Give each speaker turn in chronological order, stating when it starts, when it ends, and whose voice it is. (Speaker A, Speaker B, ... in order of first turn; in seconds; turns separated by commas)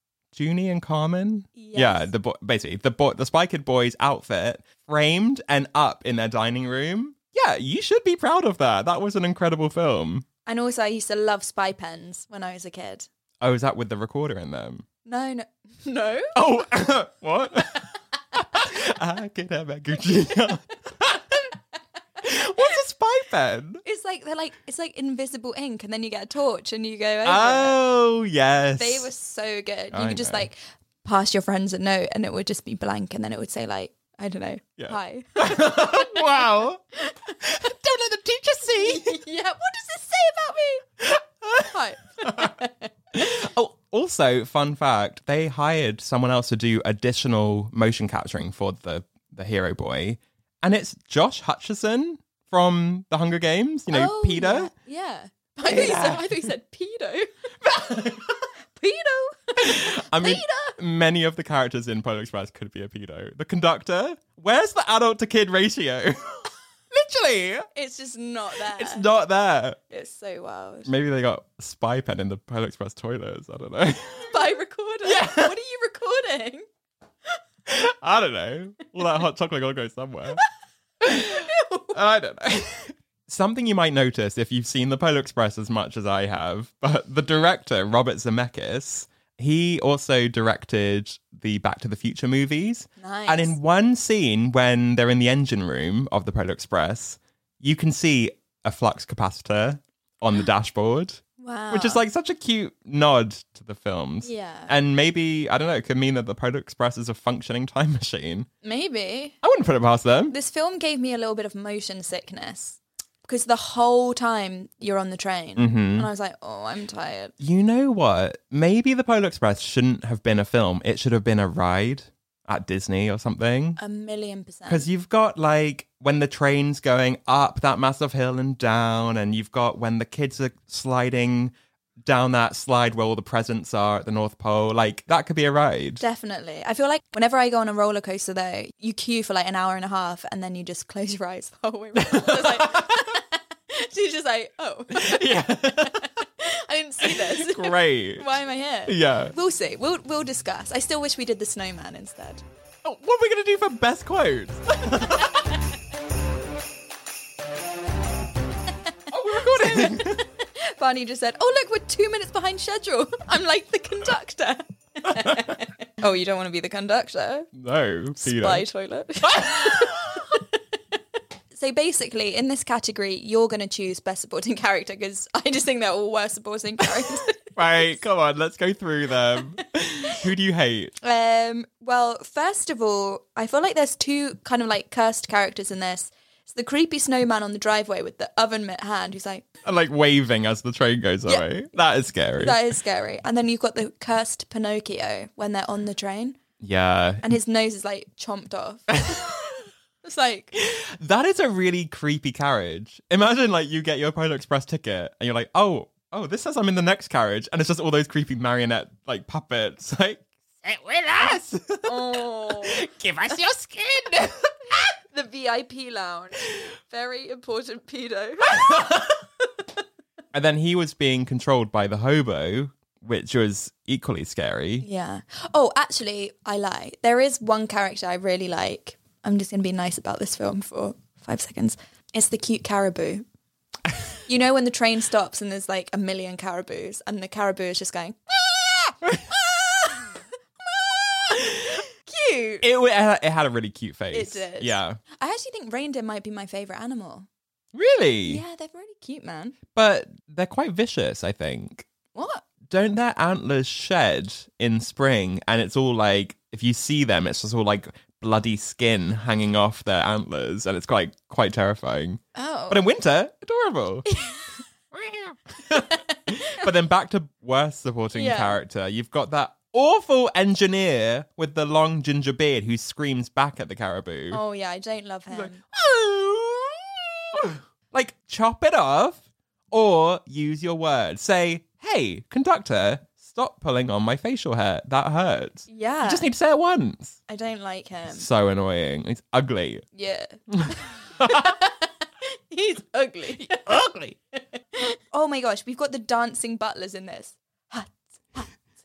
Speaker A: 0.3-10.2, Speaker B: 1.6-2.1, Speaker B: 10.4-13.1, Speaker A: 13.4-14.8, Speaker B: 15.1-16.3, Speaker A: 16.3-21.5, Speaker A: 22.2-23.8, Speaker B: 23.8-27.7, Speaker A: 27.2-29.1, Speaker B: 28.8-36.5, Speaker A: 29.9-30.4, Speaker A: 34.8-36.8, Speaker B: 37.0-37.3, Speaker A: 37.4-39.2, Speaker B: 38.7-40.8, Speaker A: 41.0-41.7, Speaker B: 41.7-43.3, Speaker A: 42.2-42.5, Speaker A: 43.2-54.7, Speaker B: 53.9-57.3, Speaker A: 55.6-56.5, Speaker A: 57.6-58.4, Speaker B: 58.7-60.7, Speaker A: 59.6-67.7, Speaker B: 67.7-69.0, Speaker A: 68.7-69.8, Speaker B: 69.9-70.9, Speaker A: 70.8-74.3, Speaker B: 74.2-76.6, Speaker A: 75.0-75.5, Speaker A: 77.7-80.4, Speaker A: 81.0-81.3, Speaker B: 81.1-82.0, Speaker A: 81.9-108.5, Speaker B: 93.0-93.5, Speaker B: 101.4-102.0, Speaker B: 104.2-104.7, Speaker B: 108.6-109.4, Speaker A: 109.4-110.3, Speaker B: 110.3-117.3, Speaker A: 115.5-116.1, Speaker A: 117.4-123.8, Speaker B: 123.8-124.9, Speaker A: 124.7-136.0, Speaker B: 136.0-152.4, Speaker A: 142.1-143.0, Speaker A: 144.9-146.0, Speaker A: 147.0-148.2, Speaker A: 148.9-149.3, Speaker A: 152.8-155.4, Speaker A: 159.1-160.2, Speaker B: 159.3-167.5, Speaker A: 167.6-168.6, Speaker B: 168.2-170.5, Speaker A: 169.2-170.2, Speaker B: 171.5-177.4, Speaker A: 177.5-180.9, Speaker B: 181.0-189.5, Speaker A: 189.6-192.7, Speaker B: 192.4-196.4, Speaker A: 196.6-197.3, Speaker B: 197.2-199.4, Speaker B: 200.0-200.5, Speaker A: 200.6-214.8, Speaker B: 211.8-212.9, Speaker B: 215.0-218.9, Speaker A: 218.5-219.1, Speaker A: 220.3-224.8, Speaker B: 224.8-233.2, Speaker B: 234.3-240.1, Speaker B: 240.6-242.6, Speaker A: 242.6-245.0, Speaker B: 244.1-247.3, Speaker A: 247.7-248.4, Speaker B: 248.2-249.6, Speaker A: 249.7-251.8, Speaker B: 252.1-252.4, Speaker A: 252.7-264.1, Speaker B: 262.4-262.8, Speaker B: 264.1-264.4, Speaker A: 264.9-274.4, Speaker B: 265.8-266.3, Speaker B: 268.1-268.6, Speaker B: 274.3-275.6, Speaker A: 275.3-287.2, Speaker B: 285.7-286.3, Speaker B: 287.3-288.2, Speaker A: 288.1-289.8, Speaker B: 289.9-293.8, Speaker A: 290.6-291.4, Speaker B: 294.7-298.5